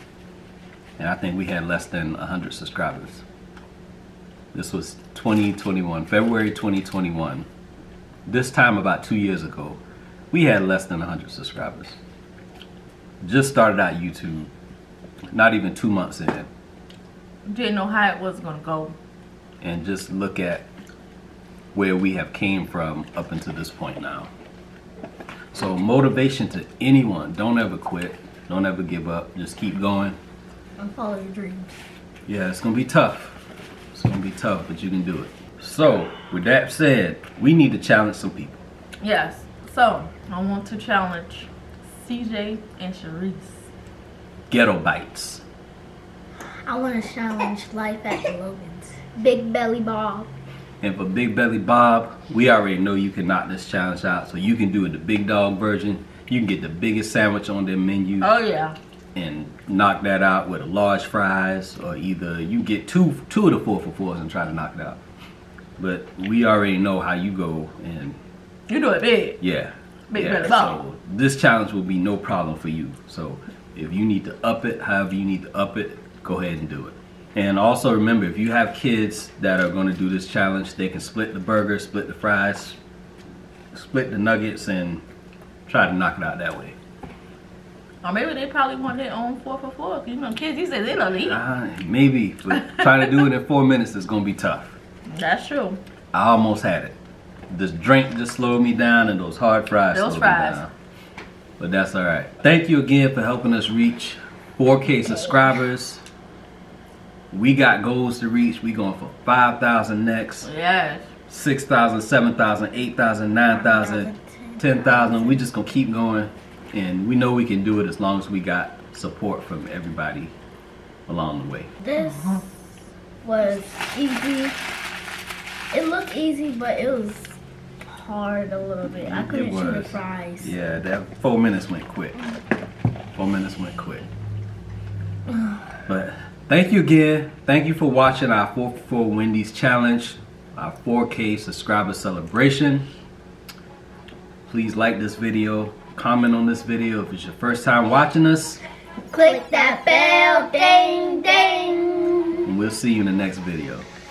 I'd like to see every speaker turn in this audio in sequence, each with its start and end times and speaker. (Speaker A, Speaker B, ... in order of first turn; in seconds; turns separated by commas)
Speaker A: 1.0-3.2, Speaker A: 4.5-7.5, Speaker A: 8.3-12.0, Speaker A: 13.2-14.5, Speaker A: 15.3-16.5, Speaker B: 17.5-19.0, Speaker A: 19.6-20.7, Speaker A: 21.7-24.3, Speaker A: 25.5-30.2, Speaker C: 30.8-31.7, Speaker A: 32.3-33.4, Speaker A: 33.9-38.6, Speaker B: 39.0-43.7, Speaker A: 44.5-45.4, Speaker C: 46.6-50.3, Speaker A: 50.8-58.3, Speaker B: 58.2-58.8, Speaker A: 59.1-65.0, Speaker A: 65.8-68.2, Speaker B: 68.7-69.4, Speaker A: 69.4-82.8, Speaker B: 70.1-70.8, Speaker A: 83.7-85.0, Speaker A: 85.7-86.8, Speaker B: 88.0-91.4, Speaker A: 91.2-94.8, Speaker B: 92.6-93.0, Speaker B: 95.1-95.8, Speaker A: 96.1-97.0, Speaker A: 97.5-100.7, Speaker B: 99.9-100.7, Speaker A: 101.6-106.0, Speaker C: 105.0-105.5, Speaker A: 107.3-110.5, Speaker B: 110.4-111.1, Speaker A: 111.3-120.3, Speaker C: 113.5-115.4, Speaker A: 121.1-121.7, Speaker C: 121.8-122.4, Speaker B: 122.0-122.5, Speaker C: 123.2-124.6, Speaker C: 125.7-130.6, Speaker A: 128.8-132.2, Speaker A: 133.2-134.1, Speaker A: 135.9-142.9, Speaker A: 144.5-148.6, Speaker C: 149.1-152.5, Speaker A: 152.4-153.9